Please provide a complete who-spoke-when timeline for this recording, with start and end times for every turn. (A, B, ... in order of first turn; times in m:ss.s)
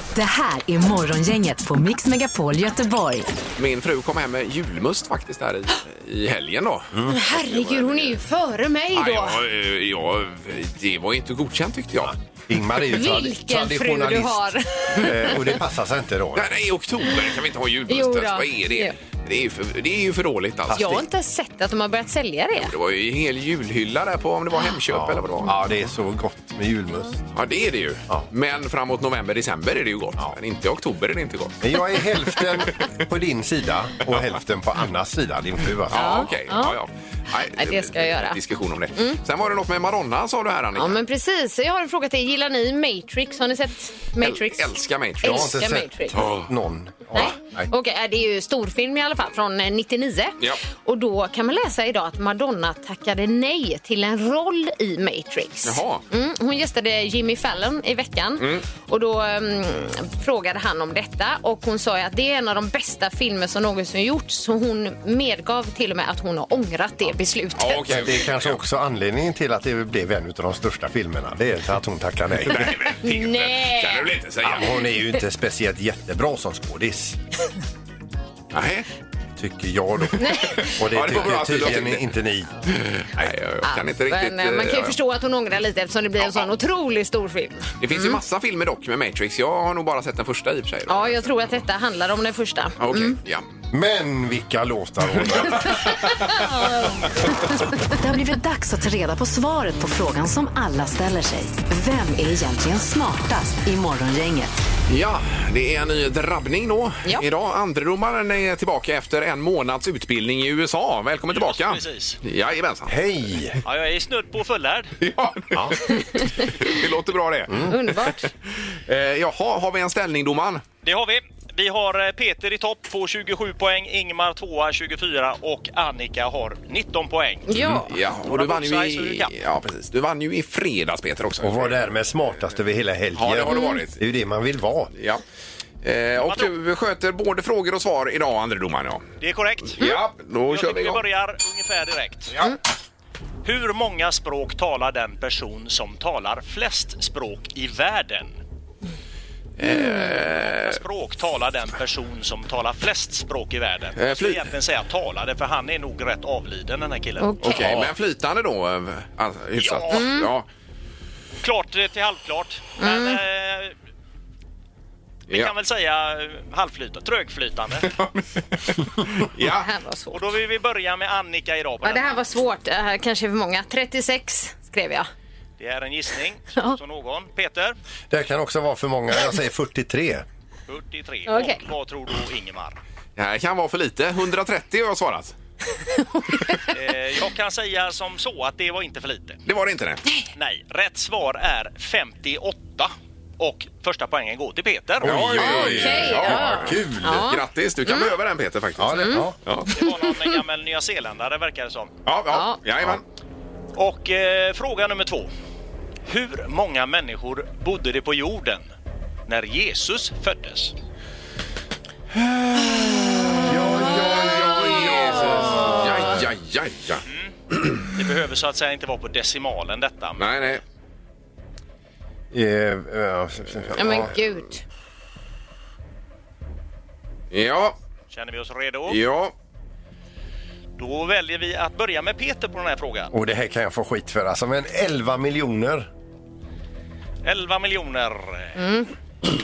0:00.1-0:03.3 A
0:03.6-0:08.2 B
0:07.1-0:09.4 C
0:08.9-0:12.2 B
0:12.0-0:16.5 D
0:12.9-0:15.3 C
0:16.4-0:21.0 B
0:17.9-0:19.0 C
0:20.7-0:22.7 C
0:22.6-0:25.6 B
0:24.9-0:27.2 D
0:27.3-0:31.6 B
0:31.6-0:36.3 D
0:35.9-0:41.0 B
0:35.9-0:36.8 C
0:37.5-0:38.4 C
0:40.8-0:46.2 C
0:44.2-0:45.5 B
0:45.2-0:47.7 D
0:46.1-0:46.5 B
0:47.2-1:08.0 C
0:55.6-0:56.0 B
0:58.4-0:58.6 B
1:07.6-1:08.6 B
1:07.9-1:12.7 D
1:12.4-1:14.8 B
1:13.0-1:14.1 C
1:14.4-1:17.2 D
1:18.5-1:18.9 B
1:19.4-1:22.6 D
1:20.2-1:20.7 C
1:20.6-1:22.1 B
1:22.7-1:25.0 B
1:23.6-1:28.2 C
1:26.2-1:26.5 B
1:27.8-1:31.3 B
1:30.9-1:33.2 C
1:32.8-1:33.4 B
1:33.7-1:35.9 D
1:35.3-1:36.4 B
1:36.1-1:37.0 C
1:38.0-1:44.6 A
1:44.9-1:53.0 B
1:51.3-1:52.2 E
1:52.9-1:53.6 D
1:53.6-1:54.9 E
1:55.0-2:00.6 B
1:56.1-1:56.5 C
1:57.7-1:58.3 C
2:00.8-2:07.5 E
2:07.5-2:07.9 C
2:07.6-2:07.8 D
2:07.7-2:11.8 B
2:08.2-2:09.3 E
2:11.4-2:14.9 D
2:13.2-2:14.0 B
2:13.5-2:13.8 C
2:15.0-2:15.2 B
2:15.8-2:19.0 B
2:16.2-2:16.5 E
2:19.2-2:19.9 E
2:19.7-2:21.0 B
2:20.5-2:22.4 E
2:23.4-2:28.4 E
2:29.6-2:30.8 B
2:29.7-2:30.0 C
2:30.2-2:37.6 E
2:34.0-2:34.5 B
2:37.2-2:37.8 C
2:37.4-2:40.5 B
2:39.6-2:40.1 E
2:39.9-2:40.3 C
2:41.4-2:43.8 E
2:42.8-2:43.2 C
2:45.3-2:47.9 E
2:47.8-2:49.7 B
2:49.5-2:50.2 C
2:50.1-2:52.2 E
2:51.8-2:55.1 C
2:55.6-2:57.8 E
2:58.1-3:00.2 D
3:00.7-3:02.8 E
3:01.3-3:01.6 C
3:03.2-3:05.3 B
3:05.8-3:06.7 C
3:06.7-3:09.4 E
3:09.5-3:10.0 B
3:10.4-3:15.1 E
3:15.0-3:17.3 D
3:15.0-3:19.8 B
3:15.3-3:18.1 C
3:18.8-3:19.4 D
3:19.0-3:19.3 C
3:19.7-3:21.9 E
3:22.1-3:23.0 B
3:22.3-3:22.6 C
3:23.8-3:25.3 E
3:26.1-3:28.7 E
3:29.3-3:30.8 E
3:32.2-3:37.9 B
3:33.4-3:36.2 D
3:33.7-3:35.9 C
3:37.1-3:37.3 E
3:37.9-3:40.3 E
3:40.2-3:40.6 B
3:42.3-3:44.2 D
3:43.8-3:44.6 C
3:47.3-3:47.8 B
3:48.1-3:49.0 E
3:48.9-3:49.3 B
3:50.8-3:53.1 E
3:53.1-3:55.9 D
3:57.2-3:58.6 E
3:58.6-3:58.9 C